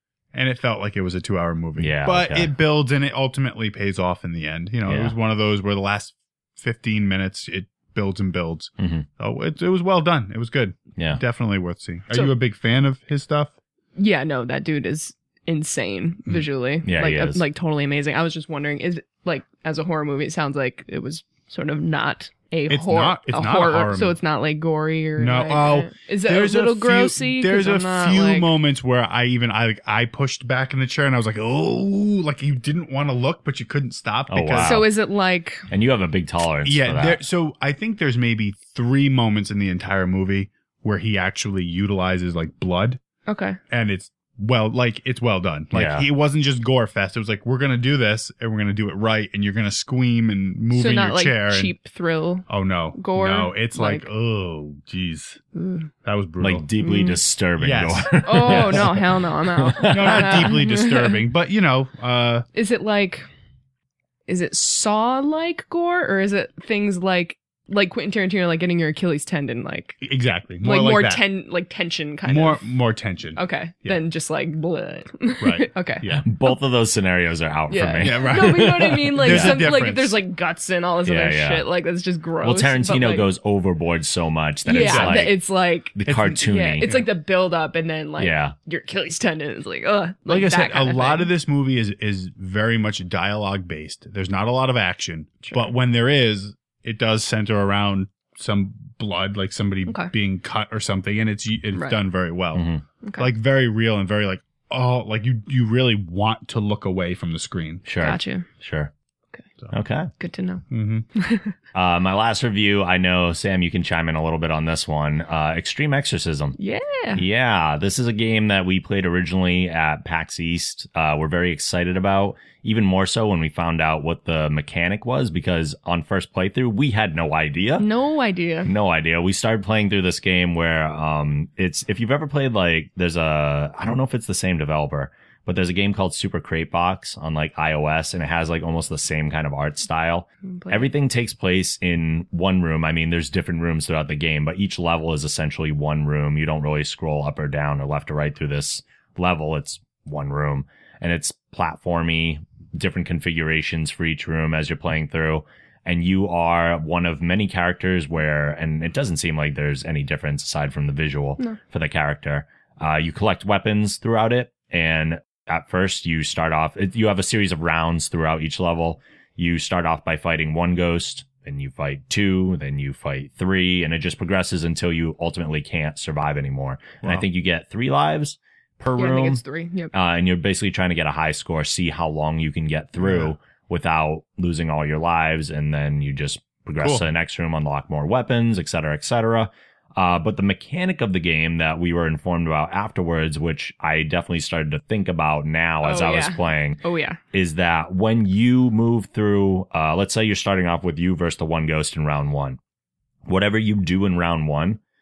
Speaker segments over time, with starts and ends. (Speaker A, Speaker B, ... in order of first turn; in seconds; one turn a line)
Speaker A: 0.3-13.5
Speaker B: 1.8-2.5
Speaker B: 4.9-5.2
Speaker B: 8.8-9.1
Speaker B: 11.0-11.2
Speaker C: 14.0-28.5
Speaker B: 16.8-17.4
Speaker A: 22.7-24.2
Speaker A: 25.2-34.9
Speaker B: 34.3-34.9
Speaker C: 34.6-35.7
Speaker B: 35.7-37.2
Speaker A: 36.6-43.0
Speaker C: 43.3-43.6
Speaker A: 43.7-51.7
Speaker B: 45.7-46.1
Speaker C: 50.7-54.1
Speaker A: 52.5-55.4
Speaker C: 55.5-55.9
Speaker A: 56.0-56.7
Speaker B: 56.4-59.0
Speaker C: 56.8-57.2
Speaker A: 57.6-58.9
Speaker C: 58.2-61.2
Speaker B: 59.6-60.6
Speaker A: 59.9-62.5
Speaker C: 62.5-63.3
Speaker C: 64.3-70.0
Speaker A: 70.0-71.2
Speaker C: 70.6-72.7
Speaker A: 72.3-74.0
Speaker C: 73.4-76.5
Speaker A: 75.4-76.3
Speaker B: 76.2-79.7
Speaker C: 77.7-83.3
Speaker A: 78.0-80.2
Speaker B: 81.0-81.7
Speaker B: 82.4-85.4
Speaker C: 84.7-91.3
Speaker A: 84.8-85.3
Speaker B: 86.0-86.9
Speaker A: 86.1-87.1
Speaker B: 88.2-88.5
Speaker A: 90.3-102.7
Speaker C: 95.4-95.7
Speaker C: 99.9-100.1
Speaker C: 101.7-102.0
Speaker B: 102.5-102.8
Speaker C: 103.0-103.3
Speaker A: 103.2-107.9
Speaker B: 107.9-108.9
Speaker C: 108.0-108.5
Speaker B: 109.7-110.1
Speaker C: 110.2-111.5
Speaker A: 110.7-111.1
Speaker B: 111.7-116.6
Speaker C: 116.6-117.2
Speaker B: 117.2-127.9
Speaker C: 127.8-128.7
Speaker B: 128.7-179.4
Speaker C: 140.5-140.9
Speaker C: 179.0-179.9
Speaker B: 179.9-202.6
Speaker A: 183.0-183.3
Speaker A: 186.8-187.1
Speaker C: 195.8-197.2
Speaker B: 203.3-204.8